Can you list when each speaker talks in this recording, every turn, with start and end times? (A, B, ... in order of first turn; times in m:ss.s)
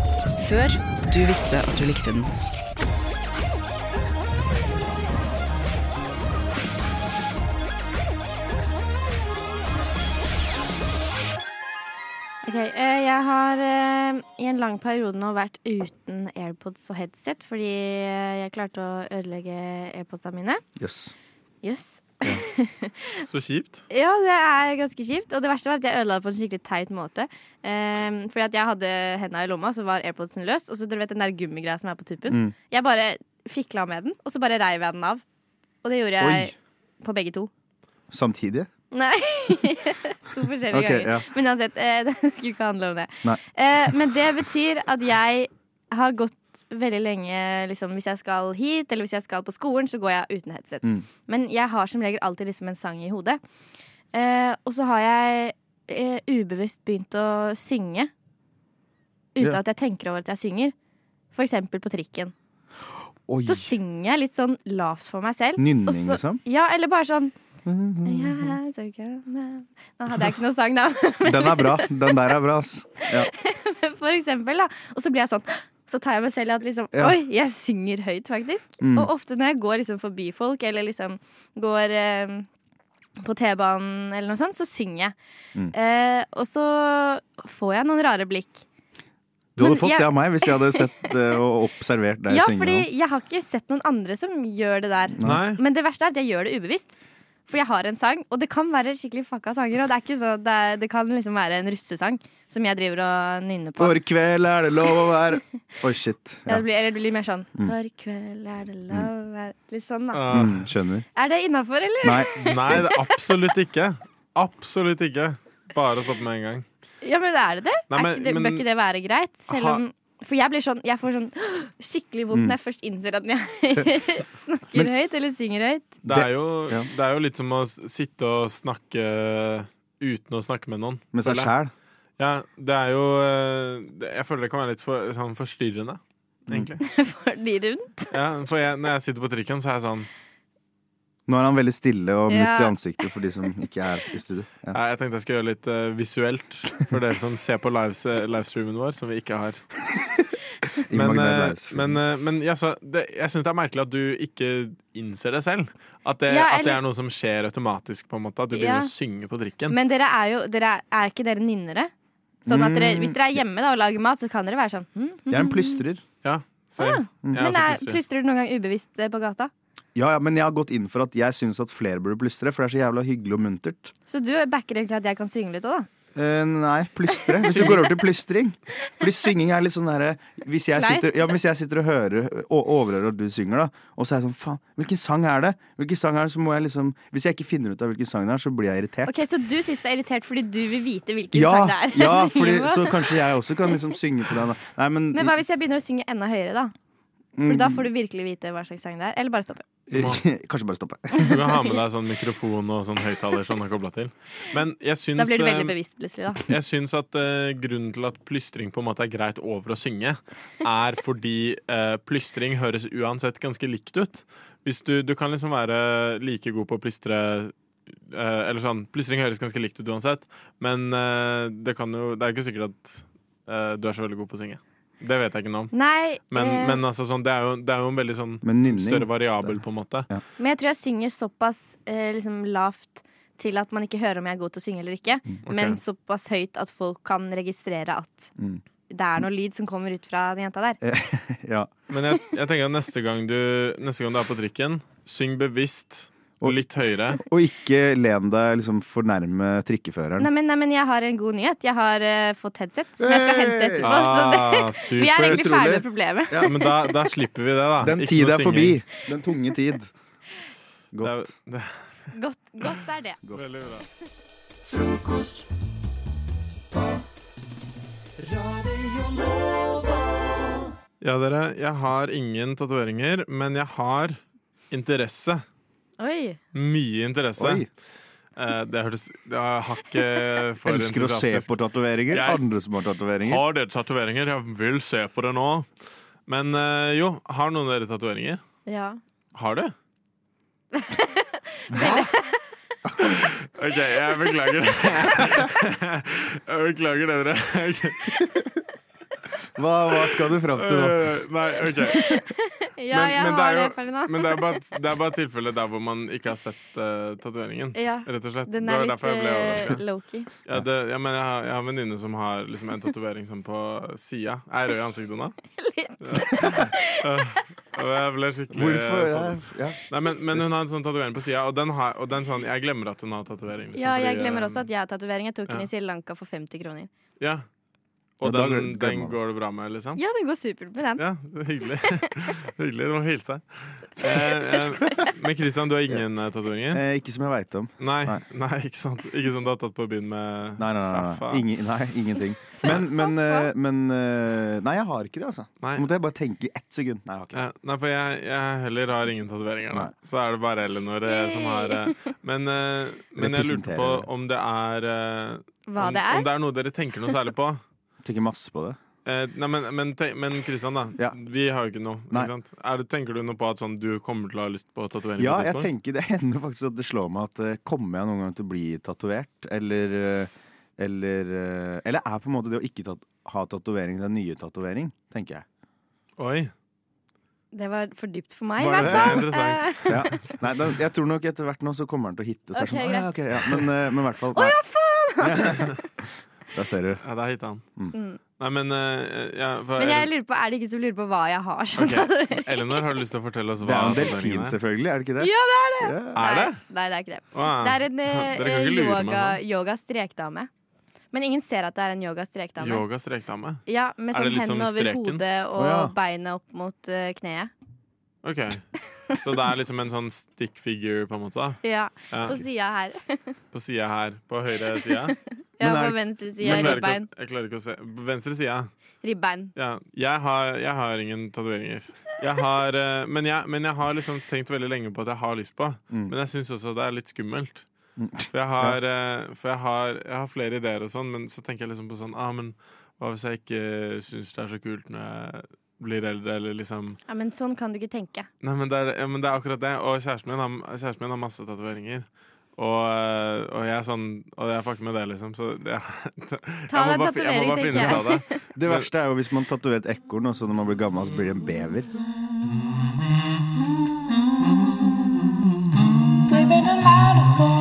0:00.4-0:02.4 A
0:12.4-0:20.6 B
0:20.8-0:21.1 C
0:21.6-0:23.1 B
0:23.3-0:23.8 D
0:23.9-0:35.2 B
0:32.3-0:32.5 C
0:35.8-0:37.5 B
0:36.2-0:36.5 C
0:38.1-0:38.7 C
0:38.9-0:53.4 B
0:40.7-0:41.3 C
0:54.1-0:58.1 B
0:59.4-1:00.7 B
1:01.3-1:02.3 B
1:03.3-1:03.7 C
1:03.4-1:07.3 B
1:05.6-1:06.4 C
1:07.6-1:08.6 C
1:08.0-1:11.9 B
1:11.2-1:13.3 C
1:13.2-1:22.5 B
1:16.9-1:17.2 C
1:18.8-1:19.1 C
1:23.2-1:25.2 B
1:25.7-1:28.6 B
1:29.6-1:32.9 C
1:29.6-1:30.8 B
1:32.3-1:37.0 B
1:35.1-1:35.4 C
1:35.2-1:35.6 D
1:37.5-1:44.0 B
1:43.8-1:46.6 C
1:46.5-1:50.2 B
1:50.1-1:50.6 D
1:50.3-1:51.0 C
1:51.2-1:52.8 B
1:52.0-1:52.8 C
1:52.4-1:56.7 D
1:57.0-2:06.0 B
1:57.9-1:58.6 D
1:59.5-1:59.8 D
2:06.0-2:06.9 C
2:06.1-2:11.5 D
2:11.1-2:11.7 C
2:12.2-2:16.8 D
2:16.8-2:18.1 B
2:18.1-2:20.1 D
2:21.3-2:24.8 C
2:22.3-2:22.8 B
2:24.7-2:29.6 D
2:30.9-2:32.0 C
2:30.9-2:39.8 D
2:36.3-2:36.8 B
2:38.5-2:38.9 B
2:39.7-2:41.9 B
2:42.5-2:43.4 C
2:42.5-2:45.8 B
2:45.3-2:46.0 C
2:46.2-2:48.0 D
2:46.8-2:49.5 B
2:50.0-2:53.9 C
2:54.1-2:55.9 B
2:56.2-3:09.2 C
2:57.3-2:57.7 B
2:57.4-2:57.9 D
3:00.8-3:01.1 B
3:09.1-3:13.0 B
3:11.3-3:15.3 C
3:15.1-3:16.7 B
3:17.4-3:17.8 C
3:17.4-3:19.7 B
3:19.9-3:21.3 C
3:19.9-3:20.2 D
3:21.2-3:25.8 D
3:25.2-3:26.4 B
3:26.4-3:45.7 D
3:45.7-3:46.8 B
3:46.3-3:50.1 D
3:48.4-3:49.6 C
3:50.4-3:58.3 B
3:55.5-3:55.8 D
3:58.9-4:00.8 B
4:00.8-4:01.7 C
4:01.9-4:07.2 D
4:07.2-4:10.3 C
4:10.2-4:16.5 B
4:13.0-4:14.0 C
4:13.8-4:15.5 D
4:15.1-4:16.5 C
4:16.4-4:18.8 D
4:17.8-4:19.9 C
4:20.9-4:21.3 C
4:21.0-4:21.8 D
4:22.1-4:23.2 B
4:23.3-4:23.8 D
4:24.8-4:25.3 C
4:31.0-4:34.2 D
4:34.7-4:35.4 D
4:36.0-4:36.4 B
4:36.5-4:37.7 D
4:37.4-4:37.7 C
4:38.4-4:41.5 D
4:40.6-4:43.4 C
4:42.1-4:42.4 D
4:43.2-4:45.7 D
4:46.3-4:48.4 D
4:48.7-4:49.0 B
4:49.4-4:49.7 D
4:50.8-4:52.4 B
4:51.8-4:52.0 C
4:53.0-4:58.2 D
4:59.6-5:01.0 C
5:00.5-5:02.2 D
5:01.9-5:04.4 B
5:02.9-5:09.8 D
5:07.8-5:10.3 B
5:10.5-5:15.4 D
5:15.6-5:16.8 B
5:16.0-5:19.4 D
5:18.5-5:19.8 C
5:19.9-5:24.6 D
5:23.8-5:26.9 B
5:27.2-5:27.4 D
5:28.2-5:30.0 D
5:28.2-5:29.2 C
5:30.0-5:31.0 B
5:31.0-5:36.8 D
5:36.7-5:38.2 C
5:37.8-5:41.4 D
5:40.6-5:47.4 C
5:42.6-5:43.5 B
5:47.3-5:57.6 D
5:51.1-5:51.8 B
5:53.2-5:54.1 C
5:55.7-5:56.3 B
5:58.0-5:58.8 C
5:59.1-6:05.7 D
6:05.2-6:15.4 C
6:16.2-6:16.5 D
6:17.5-6:20.1 B
6:18.6-6:19.3 C
6:18.8-6:20.2 D
6:19.9-6:24.6 C
6:22.6-6:23.1 B
6:24.4-6:25.7 B
6:25.2-6:25.7 C
6:26.5-6:27.0 C
6:27.0-6:27.6 D
6:27.9-6:28.2 B
6:28.4-6:30.1 D
6:29.8-6:32.5 B
6:31.8-6:34.6 D
6:33.6-6:36.2 C
6:35.2-6:40.5 B
6:36.2-6:36.6 D
6:37.3-6:39.4 D
6:41.1-6:42.8 B
6:42.6-6:45.2 D
6:43.7-6:47.5 B
6:45.6-6:45.9 C
6:48.2-6:51.6 D
6:51.6-6:53.3 B
6:52.1-6:52.4 D
6:53.5-6:55.2 D
6:55.6-6:57.1 B
6:55.6-6:56.9 C
6:56.4-6:58.7 D
6:59.0-6:59.5 B
6:59.6-7:07.7 D
7:08.0-7:08.8 C
7:08.3-7:17.0 D
7:17.1-7:18.3 B
7:18.4-7:28.9 D
7:26.7-7:28.2 B
7:28.6-7:31.9 C